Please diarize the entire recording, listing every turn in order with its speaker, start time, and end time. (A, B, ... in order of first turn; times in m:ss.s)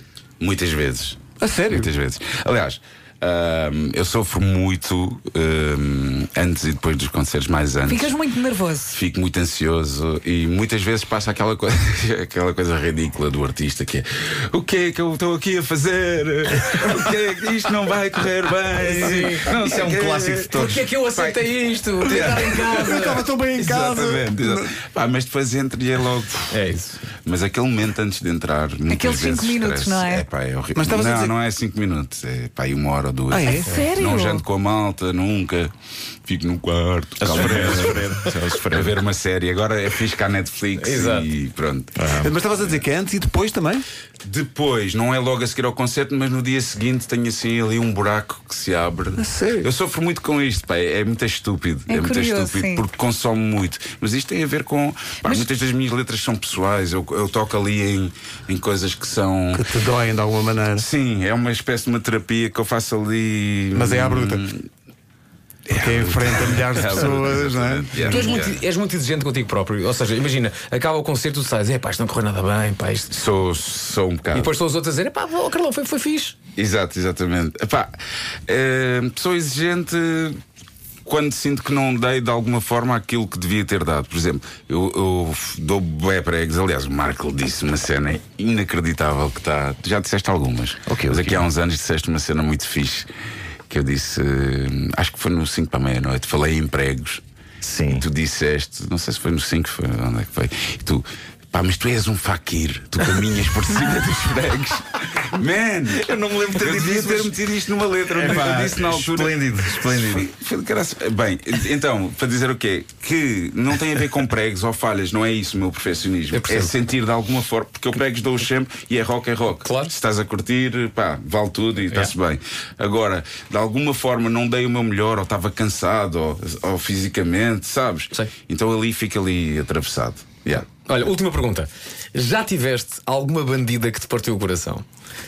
0:00.4-0:08.1 A
0:01.4-0:01.9 B
0:07.8-0:09.0 C
0:08.9-0:26.6 A
0:18.8-0:19.5 D
0:19.0-0:20.8 E
0:20.5-0:23.3 D
0:22.6-0:24.7 B
0:26.5-0:27.0 D
0:27.2-0:35.7 A
0:28.9-0:30.2 C
0:30.8-0:31.3 B
0:33.3-0:33.8 B
0:33.4-0:34.4 C
0:36.2-0:38.1 A
0:37.2-0:39.0 E
0:37.5-0:38.1 D
0:38.7-0:41.9 A
0:40.8-0:41.3 D
0:42.0-0:42.3 E
0:42.2-0:43.8 B
0:44.2-0:59.6 A
0:49.2-0:49.7 B
0:51.9-0:52.8 C
0:59.5-1:00.8 B
1:00.8-1:04.6 A
1:03.7-1:04.5 B
1:05.7-1:08.3 B
1:05.7-1:08.6 A
1:08.0-1:13.2 D
1:13.1-1:14.5 A
1:14.3-1:16.4 D
1:16.5-1:18.0 A
1:18.5-1:20.4 A
1:21.0-1:33.1 A
1:30.9-1:31.5 E
1:33.7-1:37.2 A
1:37.6-1:38.0 E
1:38.0-2:10.7 A
1:46.0-1:50.3 E
1:56.3-1:56.7 D
1:59.6-1:59.9 D
2:10.8-2:14.8 D